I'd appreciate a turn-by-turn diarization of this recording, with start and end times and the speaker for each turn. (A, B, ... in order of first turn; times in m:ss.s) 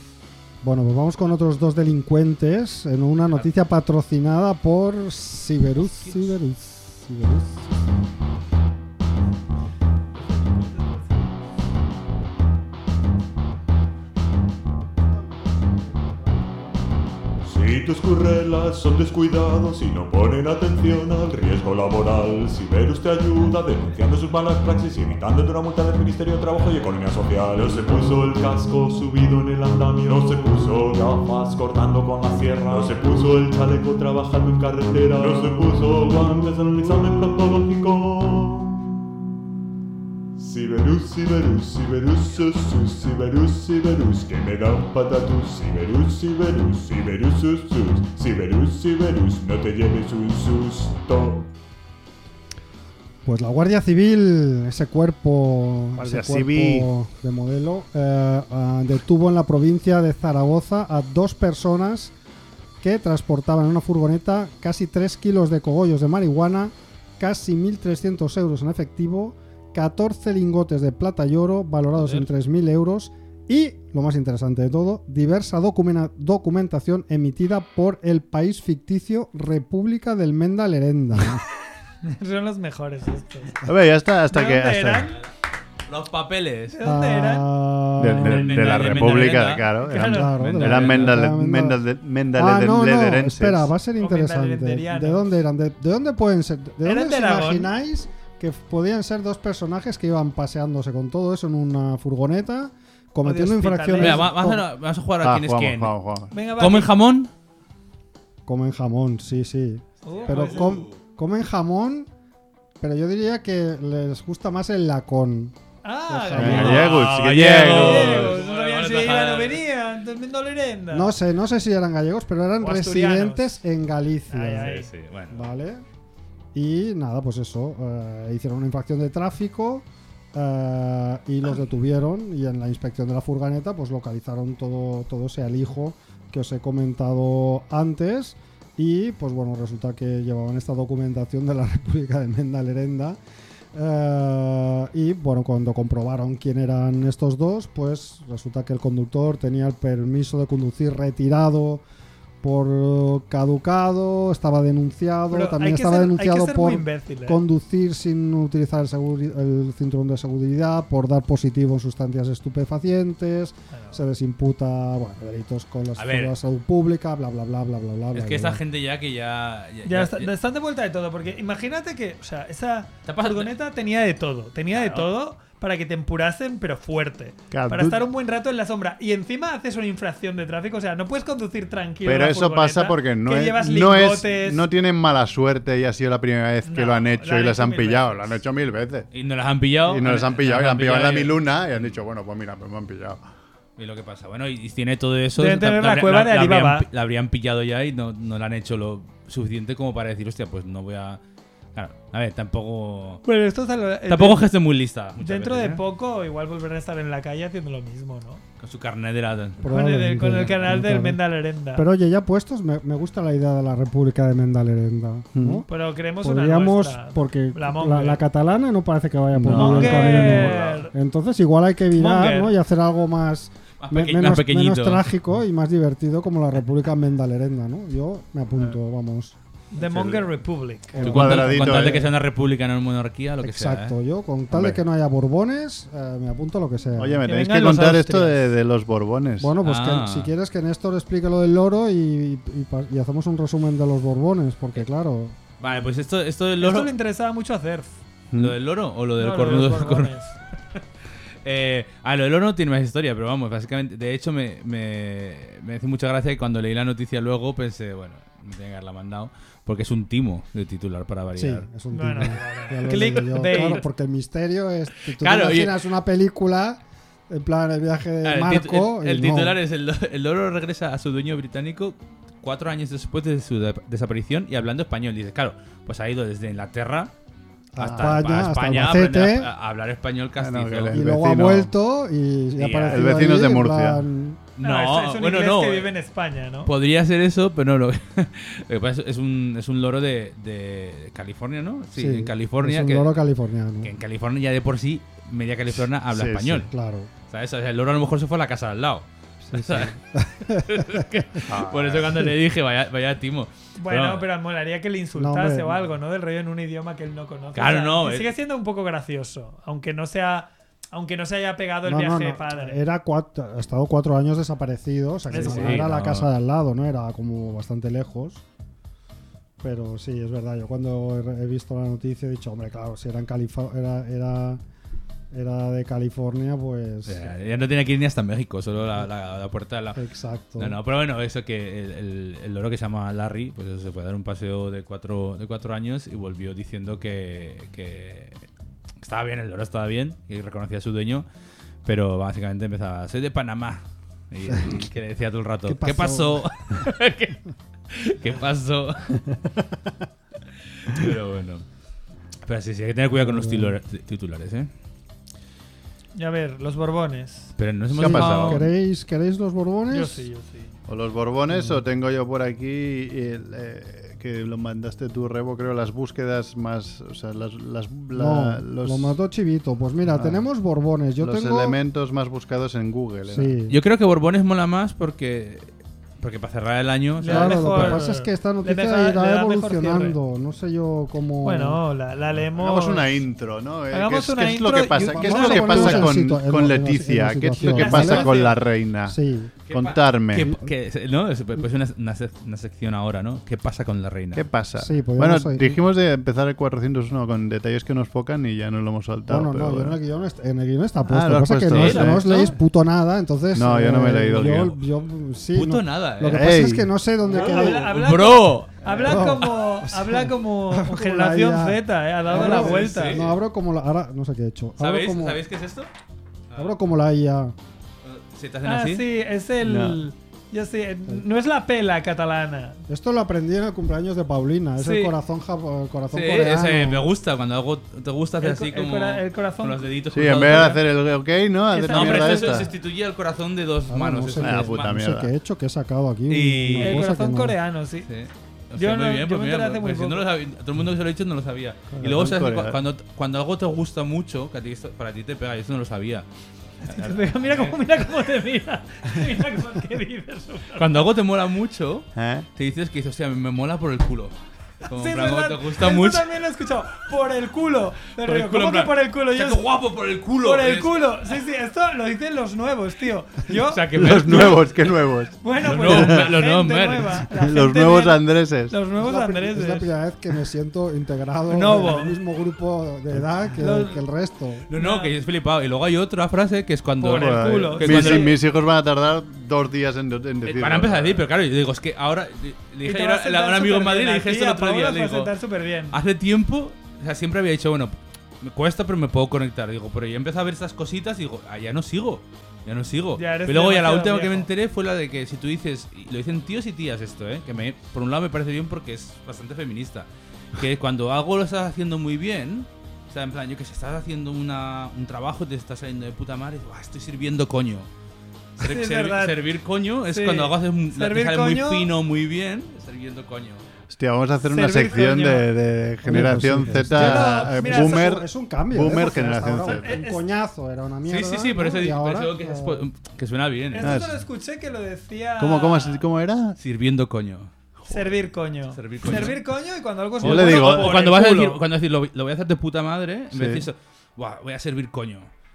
0:00.6-0:07.7 A
0:05.8-0:06.3 B
0:10.1-0:11.3 C
0:15.0-0:16.9 A
0:17.5-0:38.9 D
0:40.4-0:51.5 D
0:53.2-1:02.1 A
0:56.0-0:56.9 E
1:02.8-1:21.4 A
1:11.9-1:12.3 B
1:22.0-1:23.6 C
1:23.6-1:25.1 E
1:24.3-1:25.2 C
1:25.9-1:26.8 B
1:26.7-1:27.4 C
1:26.8-1:29.0 A
1:28.0-1:33.7 E
1:28.1-1:29.7 B
1:29.8-1:30.3 C
1:30.0-1:31.8 A
1:30.2-1:31.2 B
1:32.3-1:44.6 A
1:34.0-1:35.3 C
1:36.8-1:37.7 C
1:43.2-1:44.3 C
1:44.0-1:46.0 B
1:45.2-1:46.3 E
1:46.3-1:46.9 C
1:46.6-1:47.3 B
1:48.4-1:52.1 A
1:50.0-1:50.8 C
1:50.1-1:51.0 B
1:52.8-1:55.5 A
1:55.8-2:01.1 C
1:56.1-1:56.9 A
1:56.4-1:58.4 E
1:56.4-1:59.6 B
2:00.9-2:04.7 A
2:02.6-2:03.5 C
2:04.3-2:04.9 C
2:04.6-2:05.5 B
2:05.3-2:05.8 A
2:06.5-2:23.2 A
2:23.7-2:31.8 A
2:32.4-2:48.6 A
2:35.3-2:37.4 C
2:43.7-2:44.0 C
2:46.0-2:46.3 B
2:48.1-2:50.3 B
2:49.8-3:04.6 C
2:53.0-2:53.5 B
2:54.7-2:55.1 B
2:57.5-2:58.0 E
3:02.0-3:09.1 E
3:06.6-3:08.4 C
3:09.1-3:12.0 B
3:09.8-3:13.2 E
3:13.8-3:21.2 B
3:15.4-3:16.9 C
3:21.7-3:23.2 B
3:23.2-3:24.5 C
3:24.1-3:25.8 B
3:25.2-3:28.4 C
3:28.6-3:29.6 B
3:29.6-3:31.2 A
3:29.6-3:31.9 C
3:31.7-3:35.7 A
3:35.3-3:35.6 E
3:35.7-3:38.2 C
3:36.2-3:49.3 A
3:39.3-3:40.6 E
3:39.5-3:40.9 C
3:40.0-3:40.4 B
3:41.9-3:42.6 C
3:43.8-3:45.0 B
3:49.7-3:51.3 C
3:49.8-3:50.3 E
3:50.9-3:52.1 A
3:51.0-3:52.1 E
3:51.0-3:53.9 B
3:53.4-3:57.8 A
3:54.5-3:54.8 E
3:57.0-3:59.5 E
3:57.3-3:58.0 C
3:59.4-4:05.4 A
3:59.6-4:00.3 B
4:05.6-4:06.9 B
4:06.6-4:08.0 C
4:08.3-4:10.1 B
4:09.2-4:10.3 C
4:11.4-4:21.6 B
4:21.3-4:29.6 A
4:21.9-4:23.8 C
4:23.4-4:23.8 B
4:25.2-4:25.8 B
4:28.2-4:37.1 B
4:37.7-4:39.5 A
4:37.8-4:41.0 B
4:37.8-4:38.2 E
4:40.4-4:41.7 E
4:40.9-4:44.4 A
4:42.6-4:43.1 B
4:42.9-4:44.0 E
4:44.6-4:45.9 B
4:44.6-4:46.7 C
4:46.6-4:53.1 B
4:52.0-4:53.9 A
4:53.8-4:56.7 B
4:56.1-4:56.7 E
4:56.6-4:57.1 A
4:57.3-4:59.9 B
4:59.4-5:01.0 A
5:00.5-5:04.3 B
5:01.4-5:02.2 E
5:03.8-5:12.8 C
5:05.1-5:05.9 A
5:07.5-5:08.3 B
5:11.8-5:18.4 A
5:15.3-5:15.8 C
5:15.3-5:16.3 B
5:19.6-5:24.6 A
5:25.3-5:27.4 A
5:27.0-5:30.0 B
5:29.9-5:30.8 A
5:30.6-5:38.4 B
5:39.0-5:41.2 B
5:41.8-5:49.2 B
5:45.6-5:46.5 A
5:50.8-5:51.6 B
5:52.4-5:54.7 B
5:53.2-5:53.8 A
5:56.1-5:57.5 C
5:57.6-5:58.7 B
5:57.9-5:58.6 E
5:57.9-6:00.2 A
5:59.9-6:00.7 C
6:00.9-6:09.1 E
6:01.5-6:01.8 A
6:08.1-6:11.8 A
6:10.1-6:10.4 E
6:11.2-6:13.6 E
6:13.3-6:13.8 A
6:13.7-6:15.7 B
6:16.2-6:18.0 B
6:17.2-6:20.2 C
6:17.2-6:21.8 A
6:21.4-6:23.2 C
6:22.5-6:29.2 E
6:23.9-6:26.1 C
6:25.0-6:28.3 A
6:27.7-6:28.6 C
6:29.0-6:29.5 A
6:29.6-6:34.4 B
6:29.7-6:30.5 E
6:34.3-6:40.0 E
6:34.8-6:35.8 A
6:39.3-6:47.9 A
6:41.1-6:42.5 E
6:41.7-6:42.5 B
6:43.5-6:44.8 E
6:45.5-6:46.7 B
6:46.3-6:46.9 E
6:47.3-6:49.2 B
6:47.3-6:53.2 C
6:49.0-6:55.4 A
6:52.2-6:53.3 B
6:54.8-6:55.9 B
6:56.5-6:56.8 B
6:56.6-6:57.5 A
6:58.0-6:59.0 B
6:58.6-7:02.8 C
6:59.6-7:00.0 E
7:02.9-7:07.0 A
7:04.8-7:05.1 C
7:06.1-7:10.8 B
7:08.4-7:09.9 C
7:10.1-7:12.7 E
7:11.7-7:12.7 C
7:11.9-7:15.0 B
7:13.9-7:17.6 A
7:14.4-7:15.3 E
7:16.3-7:17.0 B
7:16.8-7:18.1 C
7:18.0-7:26.2 B
7:18.7-7:20.2 C
7:22.0-7:22.8 E
7:26.8-7:27.8 B
7:26.8-7:31.0 C
7:30.8-7:36.3 B
7:32.2-7:32.5 E
7:34.9-7:39.6 C
7:38.2-7:41.0 B
7:40.4-7:44.6 C
7:43.5-7:44.7 B
7:43.9-7:46.3 E
7:45.4-7:49.9 C
7:45.6-7:47.2 B
7:47.3-7:48.8 E
7:49.0-7:54.7 A
7:51.5-7:52.2 C
7:53.6-7:54.0 C
7:54.7-7:58.4 B
7:54.7-7:55.1 C
7:57.0-7:58.4 C
7:57.1-8:01.2 E
8:00.4-8:05.3 B
8:02.8-8:06.0 C
8:05.9-8:27.9 B
8:13.2-8:14.5 C
8:28.6-8:33.6 B
8:28.6-8:29.4 C
8:30.1-8:31.9 C
8:33.9-8:40.0 E
8:34.4-8:35.5 C
8:36.0-8:42.8 A
8:36.8-8:38.2 C
8:39.5-8:40.2 C
8:41.0-8:44.1 B
8:43.7-8:46.0 C
8:43.8-8:44.2 E
8:45.4-8:46.6 E
8:46.6-8:47.5 B
8:47.9-8:51.6 C
8:48.7-8:49.4 B
8:50.2-8:51.2 E
8:50.2-8:55.3 B
8:53.3-8:53.6 E